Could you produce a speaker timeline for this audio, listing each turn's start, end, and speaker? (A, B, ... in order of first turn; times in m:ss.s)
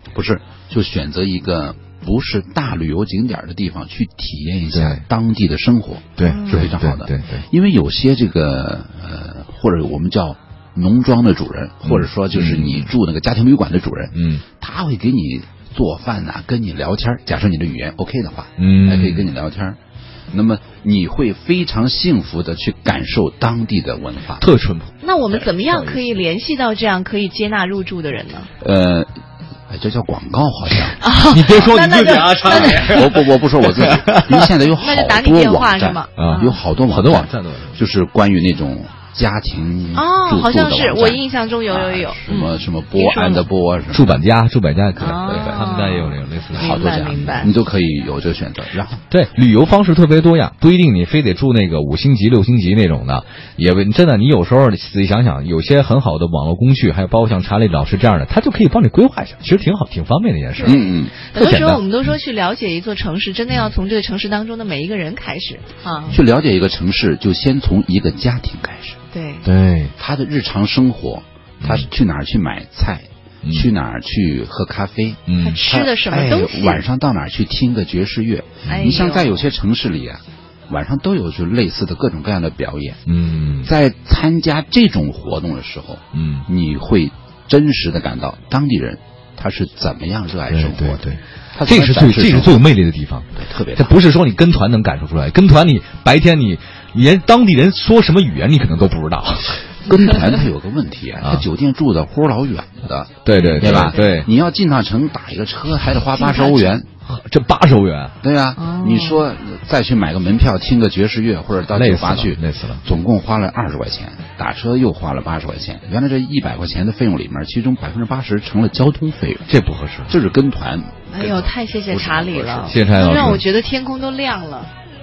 0:00.1-0:19.8 A
0:04.7-0:05.0 B
0:06.2-0:07.4 B
0:06.2-0:06.8 C
0:11.8-0:12.9 B
0:14.1-0:14.4 B
0:18.6-0:19.3 B
0:20.3-0:24.4 A
0:24.4-0:26.1 B
0:25.0-0:28.5 C
0:28.6-0:29.1 A
0:29.7-0:31.0 A
0:31.0-0:33.2 C
0:31.3-0:34.4 B
0:32.5-0:44.2 A
0:34.8-0:36.6 C
0:36.2-0:37.8 B
0:39.9-0:43.4 C
0:43.9-0:47.4 B
0:45.0-0:47.5 C
0:45.2-0:45.7 A
0:46.5-0:49.0 A
0:49.1-1:00.8 B
1:00.6-1:06.2 C
1:00.6-1:01.1 A
1:01.3-1:02.1 B
1:06.1-1:09.0 A
1:09.1-1:09.4 C
1:09.4-1:09.9 B
1:10.0-1:23.0 A
1:11.6-1:11.9 B
1:13.4-1:13.7 B
1:15.3-1:15.6 B
1:15.4-1:16.8 C
1:18.6-1:19.1 B
1:18.7-1:19.4 C
1:23.1-1:23.7 B
1:23.6-1:32.6 A
1:26.1-1:26.4 B
1:30.5-1:39.8 B
1:33.3-1:34.0 A
1:39.8-1:46.9 A
1:43.2-1:44.3 B
1:43.6-1:44.1 C
1:46.1-1:46.8 C
1:47.0-1:48.2 B
1:48.2-1:59.5 A
1:48.6-1:49.2 C
1:51.7-1:52.8 B
1:59.5-2:00.1 B
2:00.1-2:02.8 A
2:01.1-2:04.7 C
2:02.7-2:03.4 B